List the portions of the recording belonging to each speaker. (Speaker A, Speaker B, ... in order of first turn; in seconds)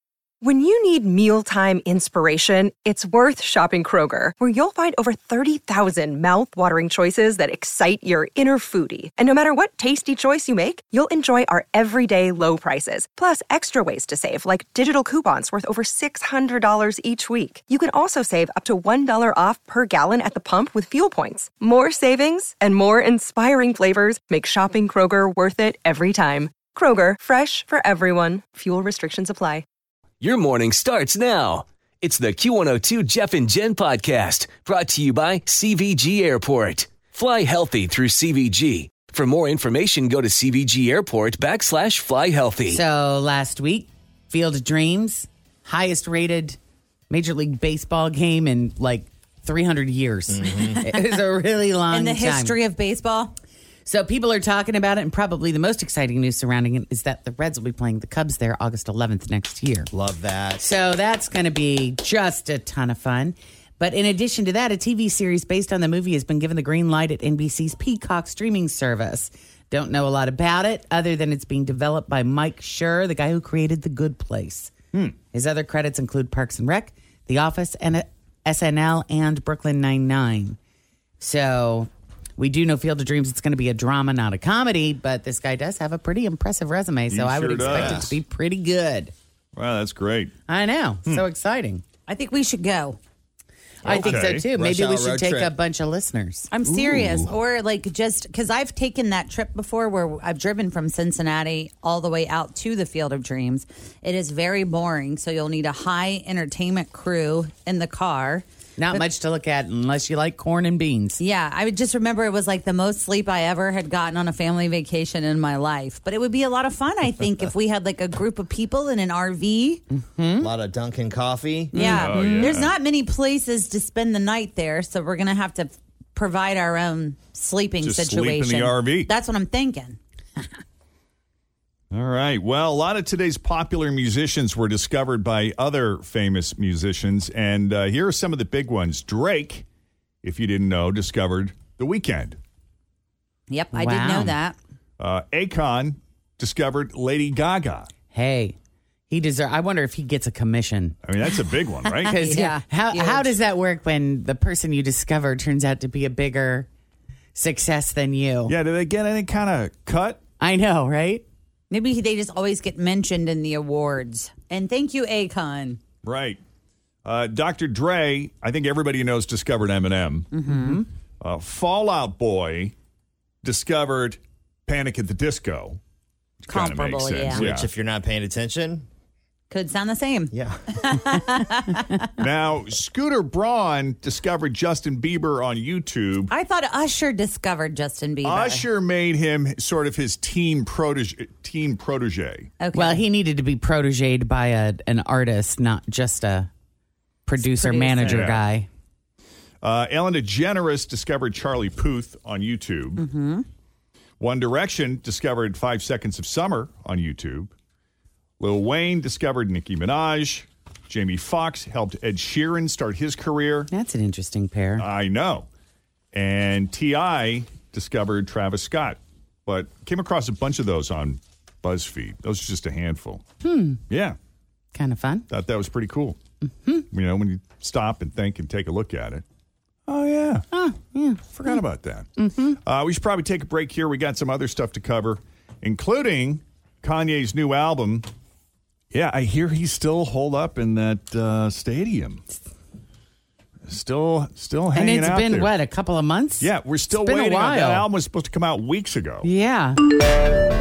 Speaker A: 0.4-29.7
Speaker B: 30.2-42.8
Speaker C: 42.7-46.6, 47.1-52.5, 53.9-59.9, 60.6-80.6, 81.2-89.1, 90.5-91.8, 93.8-96.5, 108.8-111.2, 120.0-120.5, 143.7-144.4, 148.1-148.6, 149.1-151.0, 151.8-156.7, 157.3-158.6, 160.4-161.2, 170.5-170.8, 192.7-196.5, 197.3-198.7, 213.7-214.9, 223.4-223.8, 224.7-225.3, 230.5-231.6, 232.2-232.6, 244.7-247.9, 249.2-249.8
Speaker D: 50.3-50.8, 59.9-60.7, 87.6-88.2, 94.0-95.5, 120.4-122.1, 177.3-178.9, 180.3-180.6
Speaker E: 51.9-53.4, 92.1-93.0, 96.5-109.1, 111.2-119.8, 121.7-130.0, 143.5-144.6, 152.1-153.4, 161.7-165.8, 170.3-170.8, 176.5-177.4, 179.5-182.0, 186.3-188.7, 192.6-193.0, 197.4-198.2, 203.0-203.4
Speaker F: 87.1-88.2, 89.6-90.3, 93.8-94.5, 96.7-97.3, 121.7-122.8, 127.8-129.1, 131.9-139.7, 140.2-142.4, 145.0-147.9, 151.0-152.2, 158.5-160.2, 166.0-166.4, 167.1-170.3, 171.2-172.7, 173.4-175.8, 176.5-177.7, 182.2-186.3, 188.2-192.5, 198.1-198.4, 199.6-203.0, 204.2-207.5, 208.4-213.7, 214.8-215.5, 216.1-223.2, 223.9-224.2, 225.3-226.2, 226.9-229.2, 229.9-230.4, 231.3-238.1, 238.9-242.2, 243.7-245.5, 246.4-249.3